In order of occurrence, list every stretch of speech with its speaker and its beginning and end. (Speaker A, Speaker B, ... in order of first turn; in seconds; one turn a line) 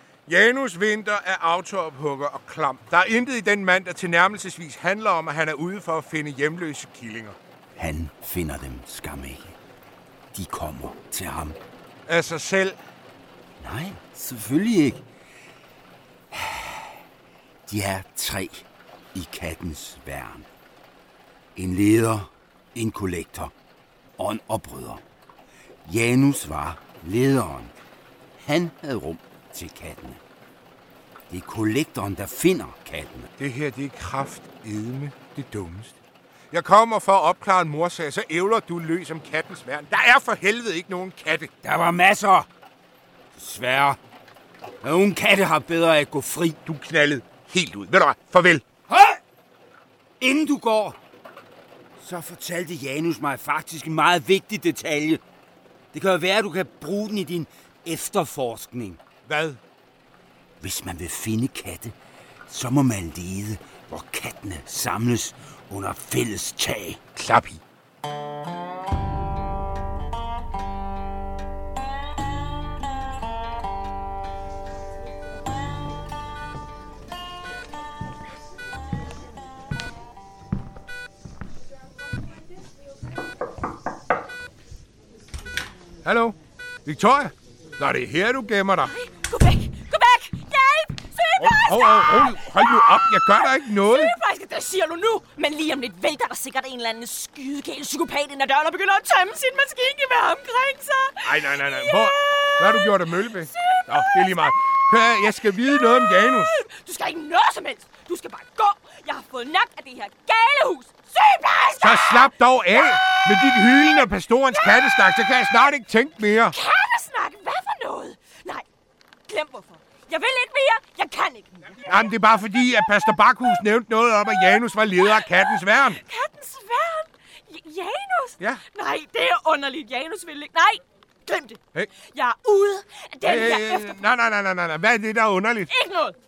Speaker A: 0.3-7.4
Speaker B: 7.8-9.6
Speaker B: 10.3-11.6
Speaker A: 12.1-12.8
Speaker B: 13.6-15.1
Speaker B: 16.3-17.0
Speaker B: 17.7-20.5
Speaker B: 21.6-23.5
Speaker B: 24.2-25.0
Speaker B: 25.9-27.7
Speaker B: 28.4-30.2
Speaker B: 31.3-33.3
Speaker A: 33.4-36.0
Speaker A: 36.5-41.5
Speaker B: 41.6-42.5
Speaker B: 43.3-44.0
Speaker B: 44.8-46.6
Speaker A: 46.7-48.7
Speaker B: 48.9-49.2
Speaker B: 50.2-51.0
Speaker B: 52.0-55.2
Speaker B: 55.9-59.0
Speaker A: 59.3-59.6
Speaker B: 60.6-62.0
Speaker B: 62.5-67.0
Speaker A: 67.2-67.6
Speaker A: 86.0-88.9
Speaker C: 88.8-115.5
Speaker A: 91.4-94.1
Speaker A: 101.2-106.6
Speaker A: 111.8-116.6
Speaker C: 116.5-118.7
Speaker C: 119.3-123.6
Speaker A: 121.9-126.0
Speaker C: 124.3-134.0
Speaker A: 133.2-135.7
Speaker C: 135.7-136.2